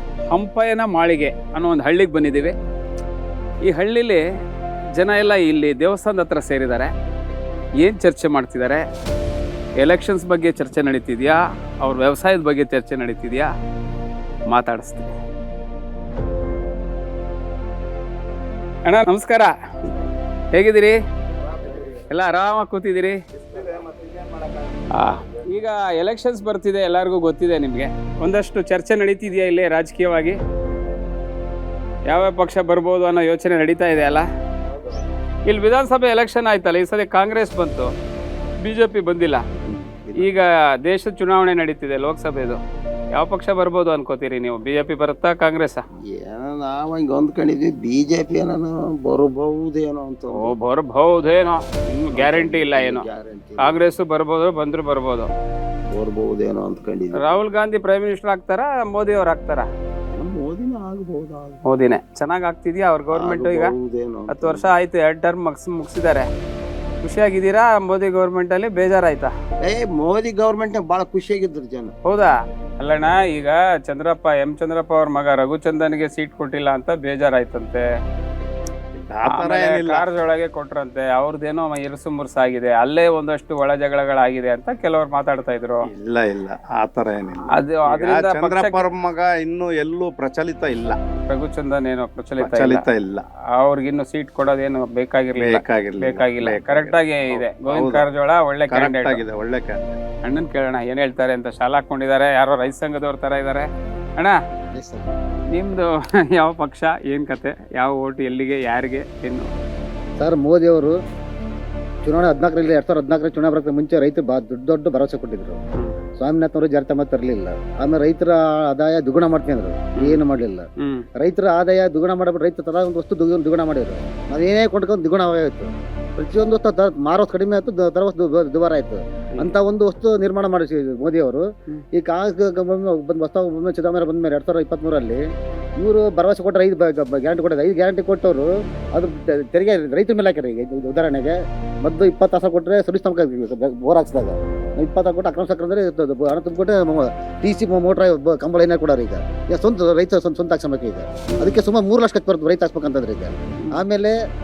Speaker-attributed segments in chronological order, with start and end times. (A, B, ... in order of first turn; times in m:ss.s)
0:00.3-0:02.5 A
0:03.6-0:04.2 A
0:05.0-0:06.9 A
0:07.8-0:08.8 A
0:09.8-0:13.5 A
0:14.5-0:15.1 A
0:18.8-0:19.5 A
0:20.5-0:21.0 A
0:22.0-0:23.2 A
0:23.5-0:23.9 B
0:24.9-0:30.4 A
0:32.1-0:34.2 A
0:35.4-0:37.9 A
0:38.6-0:39.4 A
0:39.6-0:40.3 C
0:40.2-0:42.6 A
0:43.2-0:45.8 A
0:46.1-0:50.6 C
0:50.3-0:53.0 A
0:52.1-0:53.8 C
0:53.6-0:55.3 A
0:55.9-0:57.4 C
0:57.2-0:59.7 A
1:00.1-1:01.6 C
1:01.6-1:03.7 A
1:03.1-1:04.7 C
1:04.3-1:06.3 A
1:07.0-1:09.3 A
1:09.6-1:11.9 C
1:12.0-1:17.8 A
1:18.9-1:20.0 B
1:19.3-1:25.8 A
1:25.9-1:31.0 B
1:27.5-1:28.8 A
1:31.3-1:32.8 A
1:32.4-1:33.2 B
1:33.5-1:39.2 A
1:35.4-1:38.0 B
1:38.7-1:40.0 B
1:40.2-1:43.7 A
1:44.7-1:45.1 B
1:45.5-1:49.5 A
1:50.2-1:51.0 D
1:52.0-1:55.6 D
1:56.2-2:00.6 D
2:00.8-2:01.0 A
2:01.2-2:15.2 D
2:15.8-2:34.2 D
2:31.3-2:31.6 A